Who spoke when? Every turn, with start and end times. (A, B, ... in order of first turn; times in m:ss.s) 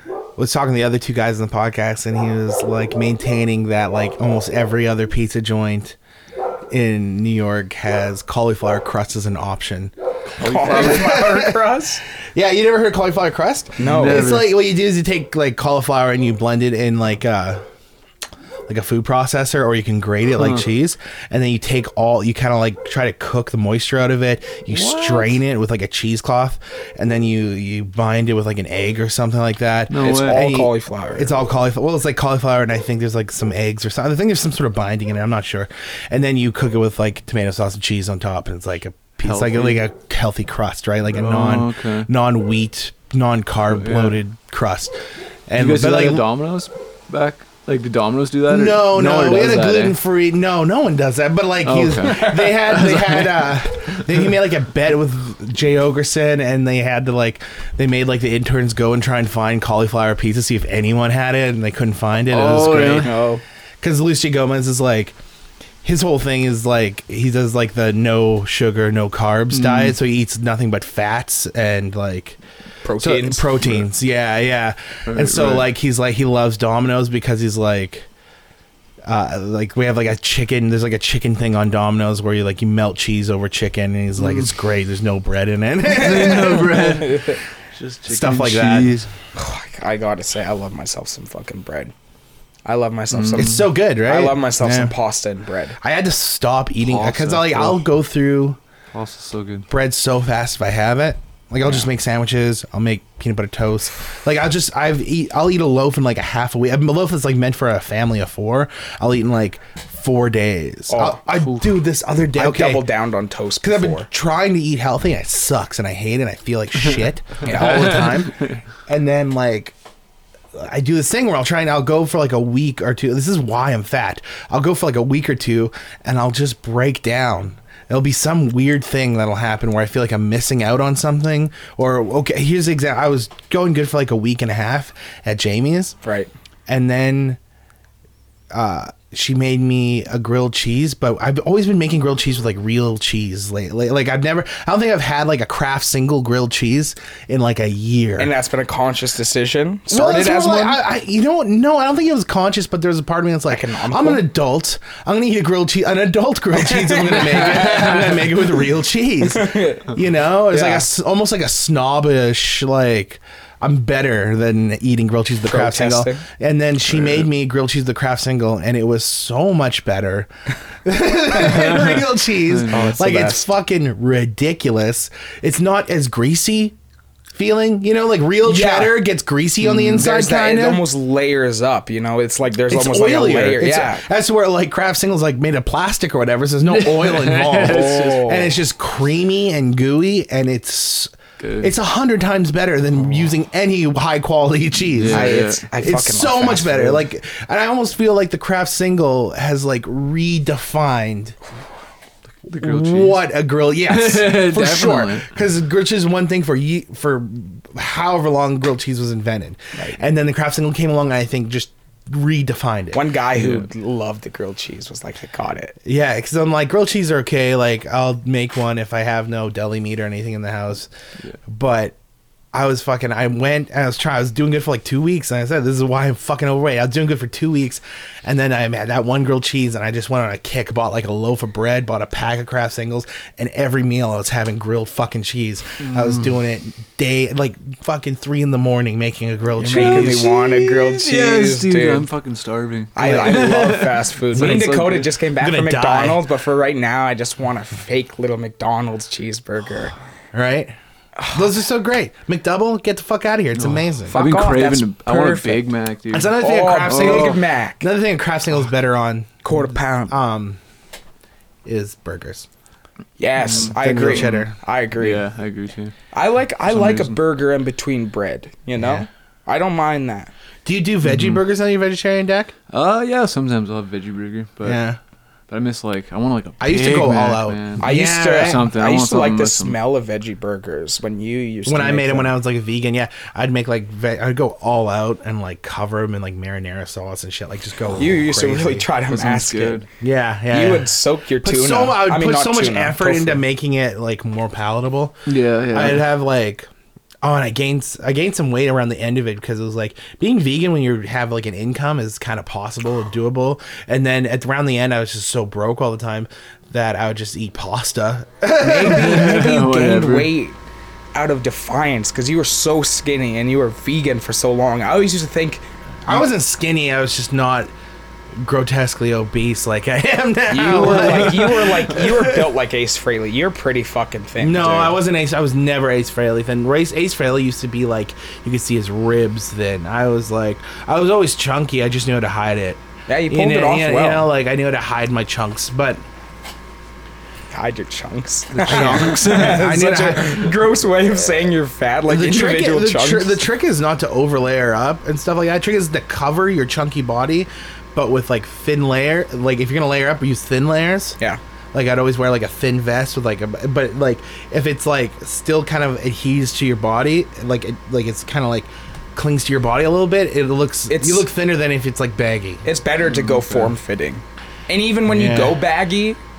0:00.4-0:06.0 A
0:06.7-0:09.9 A
0:10.4-0:11.3 B
0:10.4-0:12.0 C
0:10.6-0:11.6 A
0:12.4-0:17.6 A
0:13.8-0:14.4 C
0:13.8-0:14.6 B
0:18.7-0:44.9 A
0:20.4-0:20.6 B
0:24.7-0:25.4 B
0:29.9-0:30.5 B
0:30.0-0:31.3 C
0:39.2-0:39.8 B
0:41.1-0:42.1 B
0:43.7-0:44.2 B
0:45.5-0:46.2 A
0:45.5-0:50.0 B
0:48.5-1:03.1 A
0:51.6-0:54.0 B
1:02.3-1:03.1 B
1:02.4-1:03.4 C
1:03.8-1:05.2 A
1:05.8-1:12.4 A
1:09.5-1:10.0 B
1:12.8-1:13.9 C
1:13.0-1:18.1 A
1:15.1-1:15.7 B
1:19.0-1:27.0 A
1:24.2-1:24.5 B
1:25.9-1:29.1 B
1:26.9-1:27.4 C
1:28.1-1:28.9 A
1:29.4-1:31.9 C
1:32.6-1:35.8 C
1:33.1-1:33.6 B
1:33.4-1:34.9 A
1:35.8-1:38.6 A
1:36.8-1:37.9 B
1:38.9-1:39.7 B
1:39.7-1:52.9 A
1:50.9-1:51.3 C
1:52.3-1:54.1 C
1:53.6-1:59.8 A
1:57.4-1:58.0 C
1:57.4-1:58.6 B
2:00.6-2:16.0 A
2:16.0-2:16.3 C
2:16.7-2:17.4 A
2:18.5-2:28.3 A
2:28.2-2:30.8 C
2:29.9-2:50.3 A
2:33.5-2:34.3 C
2:36.5-2:38.0 C
2:39.2-2:40.0 C
2:40.5-2:40.9 C
2:45.4-2:46.2 C
2:50.8-2:56.8 A
2:51.5-2:53.0 B
2:52.7-2:53.4 C
2:57.3-3:00.8 A
2:58.4-2:59.0 C
2:59.7-3:00.0 B
2:59.8-3:04.0 C
3:02.7-3:21.4 A
3:06.7-3:08.4 B
3:07.6-3:08.5 C
3:11.4-3:11.7 B
3:15.0-3:15.6 B
3:15.1-3:17.0 C
3:22.4-3:23.3 B
3:22.6-3:33.0 A
3:23.9-3:25.3 B
3:32.9-3:35.8 C
3:33.4-3:33.7 B
3:35.8-3:40.9 A
3:41.5-3:41.9 A
3:42.5-4:00.3 A
3:55.8-3:56.3 B
3:59.6-4:05.1 B
3:59.6-4:02.1 C
4:02.9-4:09.9 C
4:03.0-4:03.8 A
4:04.4-4:04.7 A
4:05.4-4:06.3 A
4:10.3-4:10.8 A
4:11.3-4:14.1 A
4:13.6-4:17.4 B
4:14.1-4:15.6 C
4:16.1-4:20.6 A
4:16.4-4:17.8 C
4:19.4-4:20.1 C
4:21.6-4:22.5 A
4:23.2-4:25.2 C
4:23.4-4:24.4 B
4:23.6-4:24.6 A
4:25.0-4:25.9 B
4:26.1-4:30.3 C
4:26.6-4:27.2 B
4:28.8-4:29.1 A
4:30.6-4:32.5 A
4:31.0-4:31.4 B
4:32.7-4:34.8 B
4:34.6-4:35.0 A
4:35.5-4:39.8 B
4:36.6-4:38.7 A
4:37.8-4:42.4 C
4:41.6-4:48.9 A
4:48.0-4:49.9 C
4:49.1-4:49.8 B
4:50.0-4:50.9 A
4:50.5-4:53.4 C
4:51.4-4:56.7 A
4:55.3-4:56.1 B
4:57.2-5:09.5 A
5:08.6-5:10.6 C
5:08.8-5:10.3 B
5:11.1-5:15.7 C
5:16.1-5:17.7 A
5:18.4-5:22.5 A
5:20.5-5:25.0 C
5:20.8-5:21.4 B
5:24.4-5:36.0 A
5:33.1-5:34.3 C
5:37.5-5:43.4 C
5:38.5-5:39.7 B
5:38.6-5:40.5 A
5:42.1-5:51.2 A
5:51.7-6:02.6 A
6:00.9-6:01.3 C
6:02.6-6:06.2 C
6:03.1-6:03.7 B
6:05.1-6:05.6 A